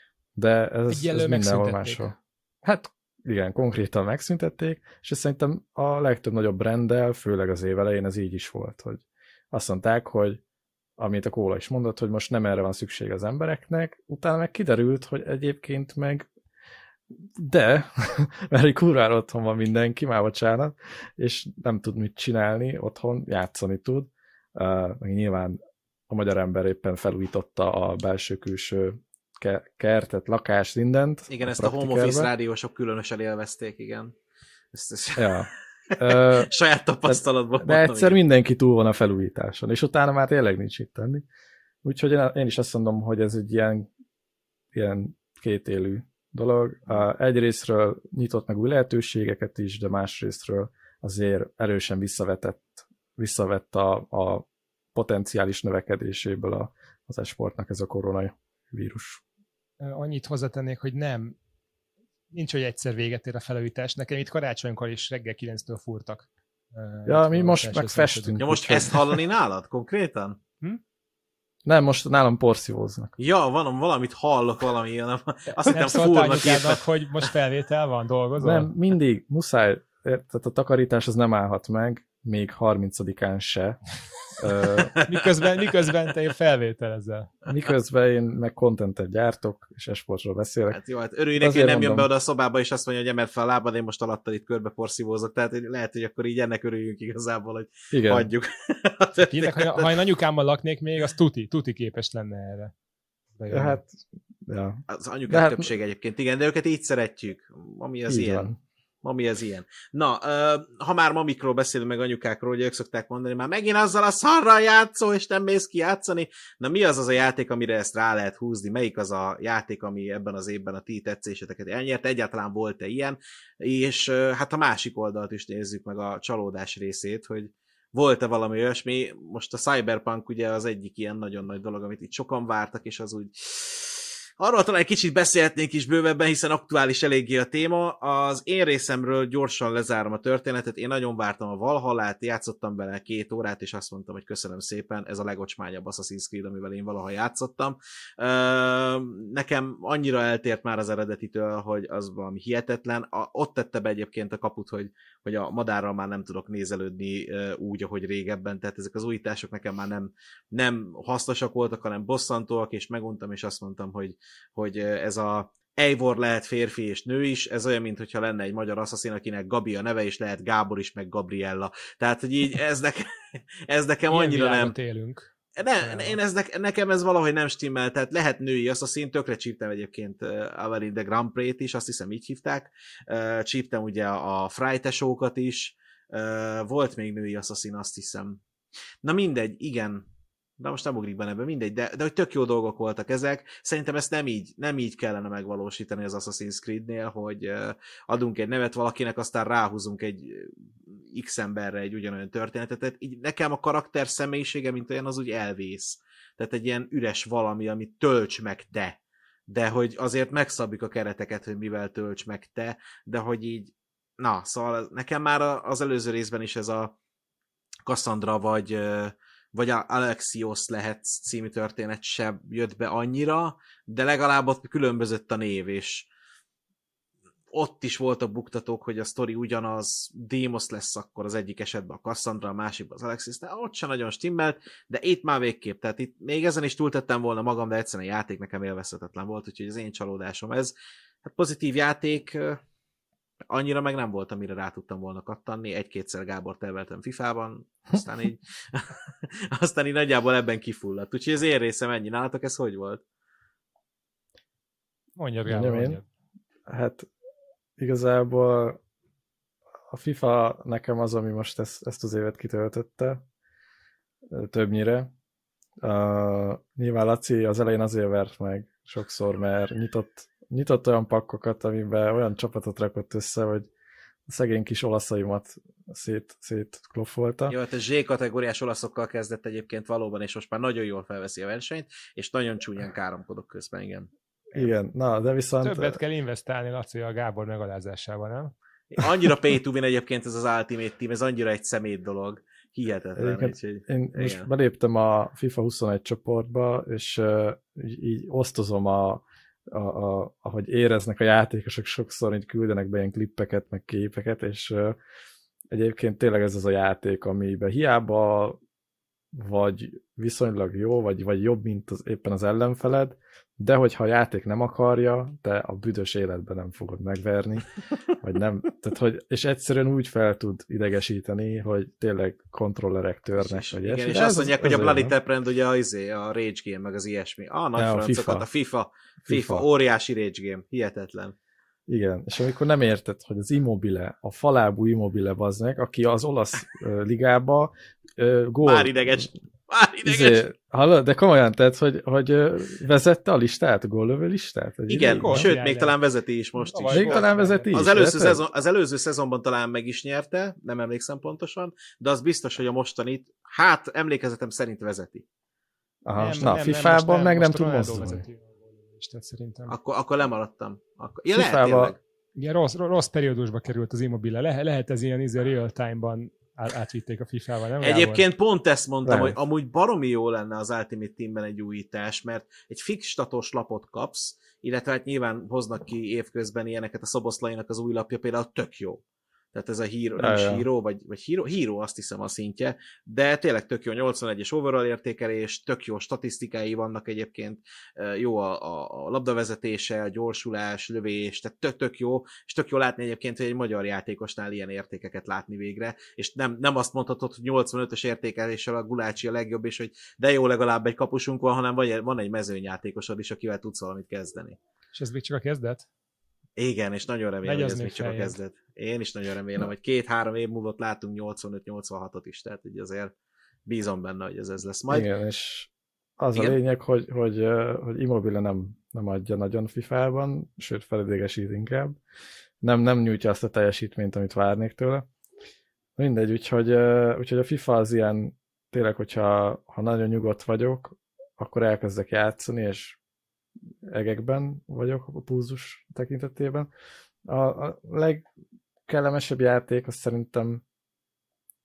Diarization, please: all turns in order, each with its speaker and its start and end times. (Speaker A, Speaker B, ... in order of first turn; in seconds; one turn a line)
Speaker A: 0.3-10.4
Speaker B: 0.9-2.1
Speaker A: 11.0-16.3
Speaker A: 17.2-32.3
Speaker C: 31.3-34.1
Speaker C: 34.7-38.2
Speaker A: 35.1-36.5
Speaker A: 37.0-41.2
Speaker A: 41.8-43.9
Speaker A: 44.7-59.2
Speaker B: 59.8-61.4
Speaker B: 62.3-68.4
Speaker A: 67.0-69.2
Speaker C: 68.4-70.4
Speaker A: 71.6-73.1
Speaker C: 73.2-76.8
Speaker B: 75.5-78.7
Speaker A: 78.4-83.8
Speaker A: 84.4-85.0
Speaker C: 84.9-85.3
Speaker B: 85.1-87.3
Speaker A: 87.5-90.8
Speaker C: 90.7-99.9
Speaker A: 91.4-92.1
Speaker A: 97.9-98.3
Speaker B: 99.3-102.7
Speaker B: 103.3-103.8
Speaker A: 103.5-105.7
Speaker C: 104.9-108.5
Speaker A: 108.1-108.5
Speaker C: 109.0-174.7
Speaker B: 174.1-176.2
Speaker C: 175.6-188.4
Speaker C: 189.0-190.0
Speaker C: 190.6-200.5
Speaker C: 201.1-216.9
Speaker C: 217.8-226.1
Speaker C: 227.5-242.6
Speaker C: 243.5-253.0
Speaker B: 255.2-256.0
Speaker A: 255.5-256.0
Speaker A: 256.7-257.1
Speaker A: 257.8-258.8
Speaker A: 259.9-263.2
Speaker A: 264.3-265.1
Speaker A: 265.8-273.7
Speaker A: 274.3-277.6
Speaker C: 277.5-284.6
Speaker A: 284.5-286.0
Speaker B: 285.6-288.5
Speaker C: 288.9-294.5
Speaker A: 293.1-305.0
Speaker A: 305.7-308.6
Speaker A: 309.3-325.1
Speaker C: 323.4-331.3
Speaker A: 327.8-328.4
Speaker A: 329.3-329.6
Speaker A: 331.9-339.2
Speaker C: 338.6-340.4
Speaker A: 340.0-345.5
Speaker C: 344.9-355.2
Speaker B: 345.1-345.9
Speaker B: 346.6-347.7
Speaker A: 346.9-348.4
Speaker A: 356.0-358.2
Speaker B: 356.1-359.7
Speaker C: 359.7-362.0
Speaker A: 361.3-361.9
Speaker B: 362.4-368.2
Speaker C: 367.8-379.0
Speaker A: 369.0-369.4
Speaker C: 379.5-404.6
Speaker A: 380.2-380.7
Speaker B: 404.9-405.9
Speaker C: 406.6-413.1
Speaker B: 407.4-408.4
Speaker C: 413.6-415.1
Speaker A: 414.9-422.0
Speaker A: 422.6-425.1
Speaker A: 426.0-433.0
Speaker A: 433.9-436.7
Speaker A: 437.2-438.2
Speaker A: 438.9-440.6